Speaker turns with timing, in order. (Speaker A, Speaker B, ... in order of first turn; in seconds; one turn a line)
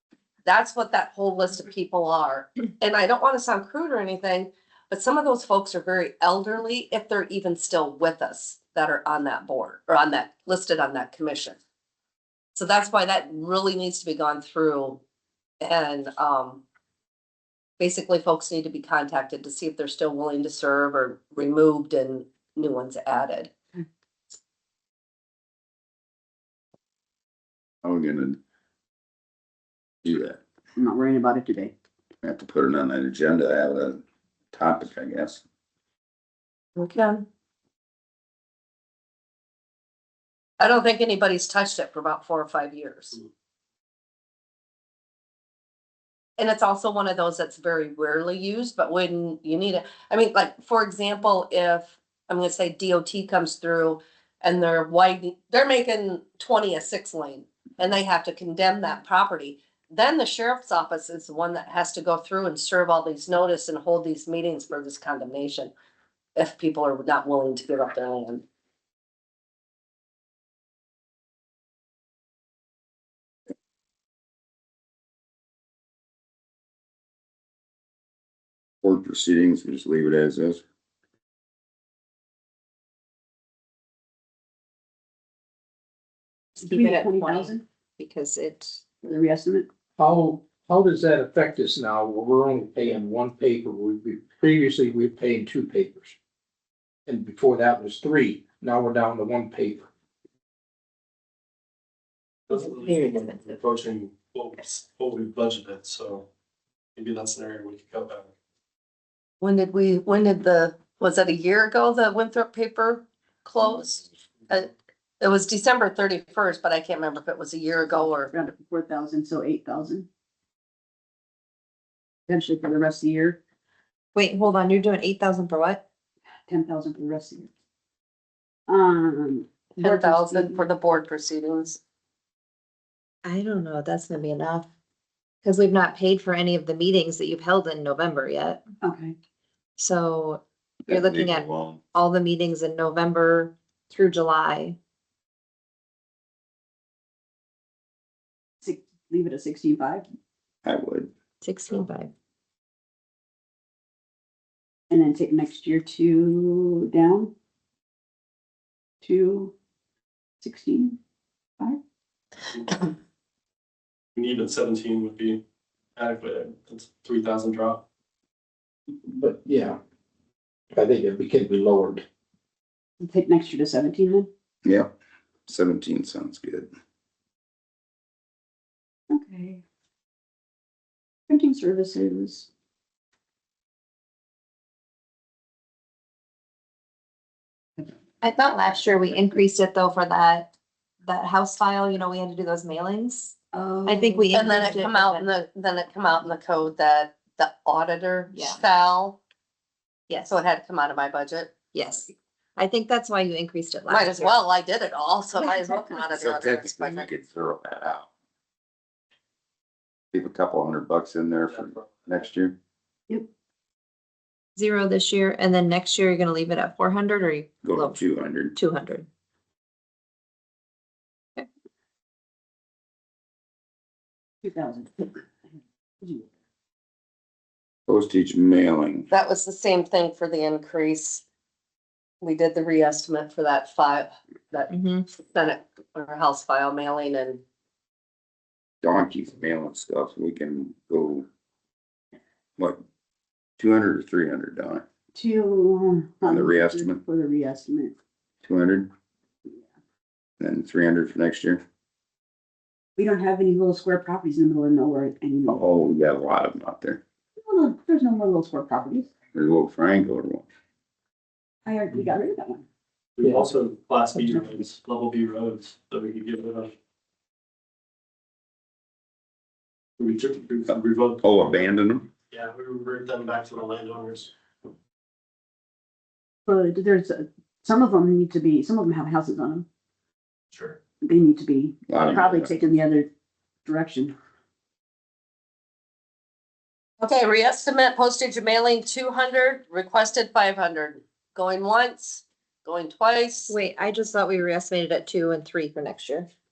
Speaker A: 0.4-11.6
Speaker A: 12.5-15.0
Speaker A: 15.6-16.6
Speaker A: 17.8-23.5
Speaker B: 27.8-28.4
Speaker B: 30.0-30.4
Speaker C: 30.8-31.7
Speaker B: 32.2-34.0
Speaker B: 34.5-35.4
Speaker A: 36.8-37.2
Speaker A: 40.6-43.2
Speaker A: 46.4-65.7
Speaker A: 66.3-68.4
Speaker B: 78.8-80.6
Speaker D: 86.5-88.9
Speaker C: 86.6-87.6
Speaker C: 89.0-89.7
Speaker E: 90.0-96.2
Speaker E: 97.0-99.9
Speaker F: 102.5-106.3
Speaker D: 102.8-103.5
Speaker F: 107.0-108.3
Speaker A: 109.4-118.3
Speaker C: 117.9-120.1
Speaker C: 122.3-123.4
Speaker D: 124.1-125.8
Speaker C: 126.5-127.5
Speaker C: 128.7-130.6
Speaker A: 129.8-131.8
Speaker D: 133.2-134.7
Speaker D: 135.4-138.6
Speaker C: 138.8-139.1
Speaker D: 139.8-144.8
Speaker B: 140.9-141.8
Speaker C: 148.6-150.1
Speaker B: 150.6-151.1
Speaker D: 151.4-152.1
Speaker C: 154.9-157.3
Speaker C: 159.0-159.5
Speaker C: 160.4-161.0
Speaker F: 162.6-162.8
Speaker F: 164.2-165.4
Speaker F: 165.9-167.8
Speaker E: 169.1-169.8
Speaker E: 170.7-172.0
Speaker C: 173.0-174.3
Speaker B: 174.6-174.9
Speaker B: 175.5-176.7
Speaker C: 179.1-179.6
Speaker C: 181.3-182.5
Speaker D: 188.2-190.5
Speaker D: 191.0-195.3
Speaker C: 193.5-194.3
Speaker A: 194.3-199.2
Speaker D: 198.3-198.6
Speaker D: 200.1-200.3
Speaker A: 200.3-201.6
Speaker D: 201.7-204.3
Speaker A: 203.9-207.1
Speaker B: 206.2-208.1
Speaker B: 210.1-212.6
Speaker D: 214.6-219.1
Speaker B: 217.6-218.5
Speaker C: 224.4-225.1
Speaker B: 227.9-229.1
Speaker A: 229.1-231.2
Speaker A: 232.2-237.4
Speaker D: 234.7-235.1
Speaker B: 238.8-241.3
Speaker B: 243.6-244.8
Speaker C: 245.1-247.9
Speaker B: 246.2-247.0
Speaker B: 248.4-248.9
Speaker B: 250.4-251.6
Speaker C: 253.0-255.6
Speaker B: 255.5-257.0
Speaker C: 257.4-259.1
Speaker B: 259.3-260.4
Speaker C: 261.6-262.6
Speaker F: 263.1-266.7
Speaker F: 270.0-271.2
Speaker B: 271.2-272.1
Speaker F: 272.3-274.3
Speaker C: 276.4-279.6
Speaker F: 280.5-280.8
Speaker C: 281.0-283.1
Speaker B: 281.9-282.5
Speaker C: 283.6-284.1
Speaker A: 287.0-293.6
Speaker D: 293.5-296.3